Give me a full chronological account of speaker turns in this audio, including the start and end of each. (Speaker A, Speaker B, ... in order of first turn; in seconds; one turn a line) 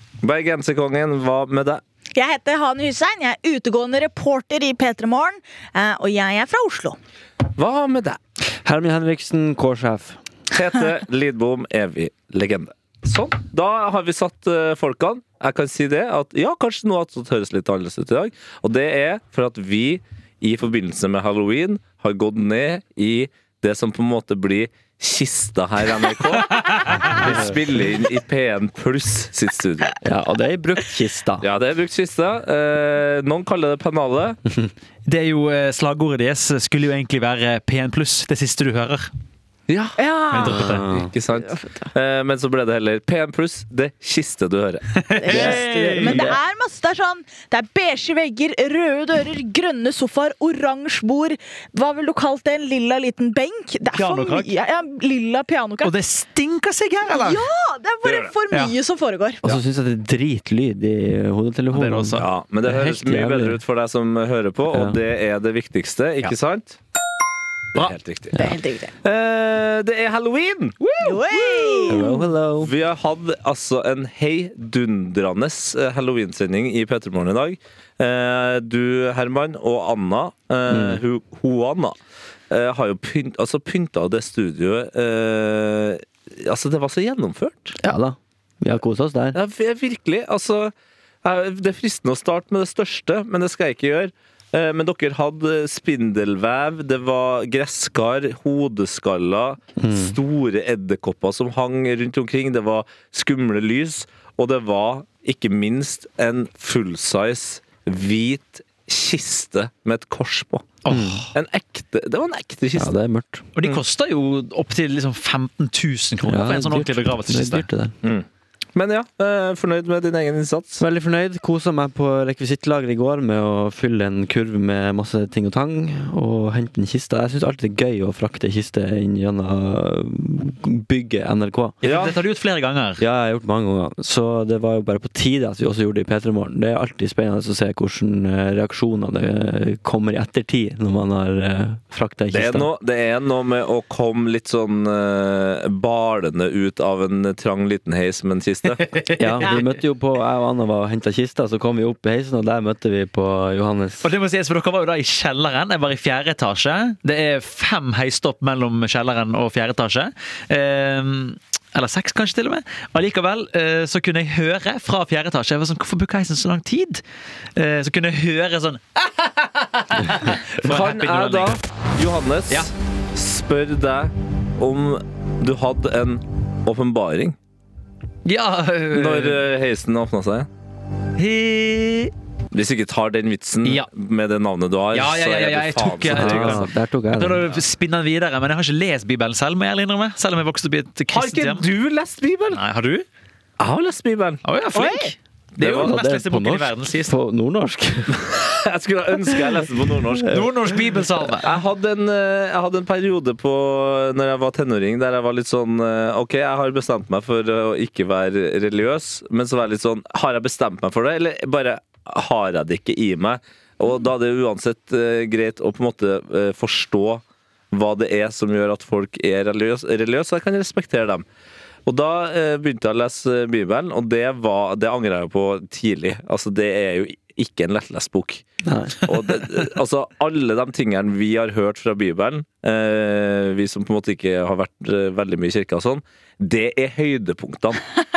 Speaker A: 0.2-1.8
Speaker B: 2.1-7.0
Speaker A: 7.5-8.2
Speaker C: 8.6-10.2
Speaker A: 10.5-30.0
Speaker C: 27.1-27.8
Speaker C: 30.0-31.4
Speaker A: 31.4-34.4
Speaker D: 35.1-39.1
Speaker A: 39.7-40.0
Speaker B: 40.0-40.6
Speaker D: 40.3-40.8
Speaker C: 40.4-41.1
Speaker A: 40.9-45.5
Speaker B: 41.4-41.9
Speaker D: 45.0-46.3
Speaker B: 45.1-55.9
Speaker C: 45.3-46.4
Speaker D: 53.9-54.5
Speaker D: 55.8-57.4
Speaker B: 57.1-59.5
Speaker A: 58.0-58.3
Speaker C: 59.4-63.6
Speaker D: 61.7-62.3
Speaker A: 62.2-66.8
Speaker C: 64.7-65.0
Speaker A: 67.7-68.5
Speaker B: 68.4-68.9
Speaker A: 69.0-70.9
Speaker D: 70.8-71.8
Speaker B: 71.0-72.1
Speaker C: 71.9-72.7
Speaker A: 72.6-82.0
Speaker C: 80.7-81.0
Speaker A: 82.5-87.8
Speaker C: 87.8-89.4
Speaker A: 89.3-90.7
Speaker A: 91.2-110.8
Speaker C: 99.8-100.1
Speaker D: 110.8-111.3
Speaker C: 110.9-111.2
Speaker A: 111.3-112.9
Speaker C: 112.8-113.5
Speaker D: 113.5-117.7
Speaker C: 116.2-117.9
Speaker A: 118.0-120.8
Speaker C: 120.8-131.8
Speaker D: 131.8-133.0
Speaker A: 131.8-132.1
Speaker C: 133.0-142.7
Speaker A: 142.3-148.8
Speaker D: 148.8-149.7
Speaker C: 149.2-154.1
Speaker D: 154.0-167.0
Speaker D: 167.6-171.6
Speaker A: 170.6-177.3
Speaker D: 178.2-179.4
Speaker A: 178.9-180.5
Speaker D: 181.2-182.1
Speaker A: 182.5-186.6
Speaker D: 184.9-191.7
Speaker C: 186.1-187.5
Speaker A: 191.1-192.6
Speaker D: 192.5-193.1
Speaker A: 193.6-194.4
Speaker D: 194.4-197.1
Speaker B: 194.7-195.1
Speaker A: 195.6-195.9
Speaker C: 195.6-198.2
Speaker A: 198.2-200.4
Speaker D: 200.3-201.5
Speaker A: 201.4-221.2
Speaker A: 221.8-228.4
Speaker C: 228.6-229.0
Speaker A: 229.0-237.9